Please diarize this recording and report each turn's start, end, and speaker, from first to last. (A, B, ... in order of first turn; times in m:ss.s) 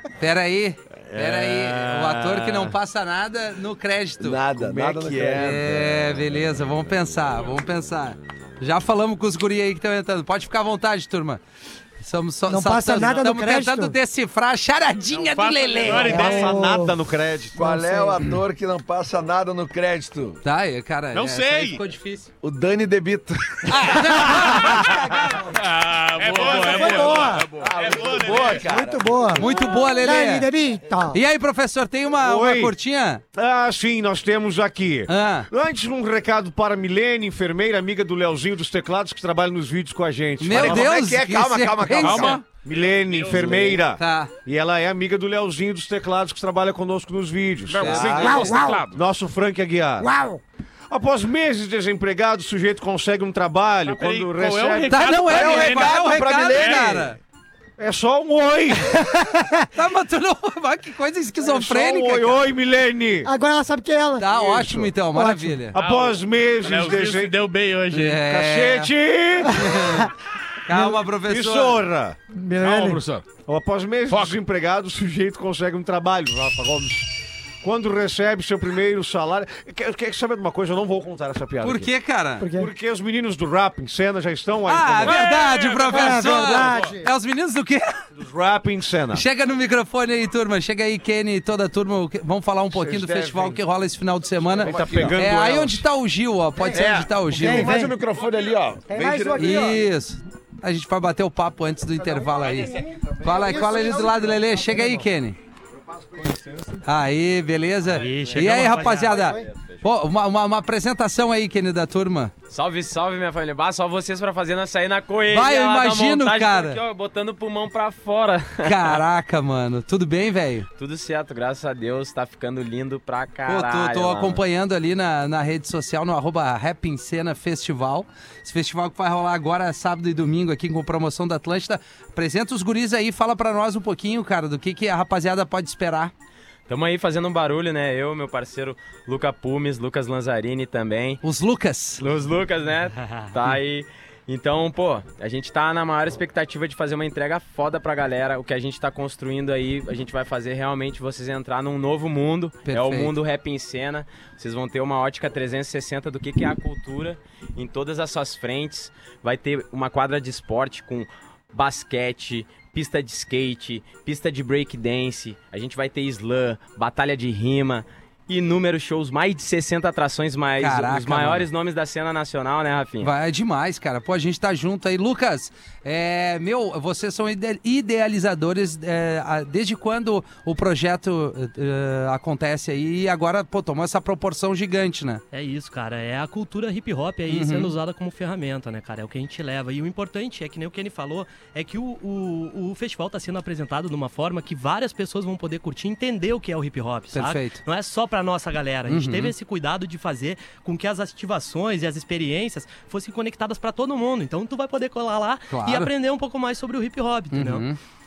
0:00.2-0:04.4 A
0:04.2-0:06.2 B
0:04.6-0:05.4 C
0:05.2-0:11.4 A
0:12.0-0:16.5 A
0:12.5-0:14.0 D
0:15.3-0:16.6 E
0:15.9-0:17.6 C
0:16.0-0:17.0 D
0:17.5-0:20.4 B
0:17.6-0:18.3 D
0:20.4-0:22.3 A
0:21.1-0:21.8 E
0:22.4-0:25.4 B
0:23.7-0:25.2 A
0:25.5-0:27.9 F
0:25.8-0:28.6 E
0:26.6-0:27.5 D
0:27.5-0:29.6 B
0:28.5-0:31.2 D
0:29.4-0:30.5 A
0:31.1-0:33.2 A
0:32.2-0:32.7 C
0:33.3-0:41.0 C
0:35.1-0:35.5 A
0:40.4-0:42.4 A
0:40.5-0:42.4 B
0:42.0-0:43.6 F
0:42.5-0:50.1 C
0:43.3-0:43.8 B
0:43.9-0:44.3 A
0:47.7-0:49.0 F
0:47.8-0:48.2 A
0:48.2-0:48.8 D
0:50.0-0:50.4 D
0:50.9-0:57.1 C
0:53.8-0:56.0 E
0:54.9-0:57.2 A
0:55.2-0:55.6 F
0:56.5-0:57.0 E
0:57.8-0:59.0 C
0:59.0-0:59.6 D
0:59.7-1:02.4 A
1:01.4-1:03.3 C
1:03.2-1:04.3 D
1:04.2-1:05.8 A
1:04.3-1:04.9 C
1:05.1-1:05.7 D
1:05.7-1:07.4 C
1:05.8-1:08.2 E
1:07.9-1:08.9 A
1:08.2-1:09.6 C
1:09.5-1:10.1 A
1:10.6-1:11.8 A
1:10.8-1:12.2 C
1:12.3-1:13.0 D
1:12.6-1:13.3 F
1:13.4-1:21.9 C
1:14.1-1:14.4 F
1:21.6-1:22.4 A
1:22.4-1:22.7 D
1:22.5-1:25.2 C
1:24.7-1:28.0 A
1:25.0-1:26.9 F
1:25.9-1:27.1 D
1:28.2-1:29.2 C
1:29.1-1:37.8 A
1:32.7-1:33.6 C
1:34.6-1:35.8 C
1:34.6-1:35.2 B
1:36.6-1:38.0 D
1:36.7-1:39.8 B
1:38.9-1:39.8 D
1:39.4-1:45.4 A
1:42.4-1:45.0 D
1:42.8-1:44.0 B
1:46.0-1:46.4 B
1:46.8-1:52.3 A
1:48.0-1:49.2 G
1:48.3-1:49.3 C
1:52.5-1:59.0 H
1:55.3-1:56.8 A
1:58.6-2:00.7 A
2:00.8-2:04.4 H
2:03.4-2:16.1 A
2:16.7-2:21.2 H
2:21.2-2:22.0 A
2:22.0-2:53.1 H
2:32.6-2:33.1 A
2:50.6-2:51.5 A
2:53.0-3:05.2 A
3:05.3-3:27.6 G
3:07.3-3:07.7 A
3:17.1-3:17.6 A
3:18.9-3:19.3 A
3:25.5-3:25.9 A
3:27.3-3:27.8 A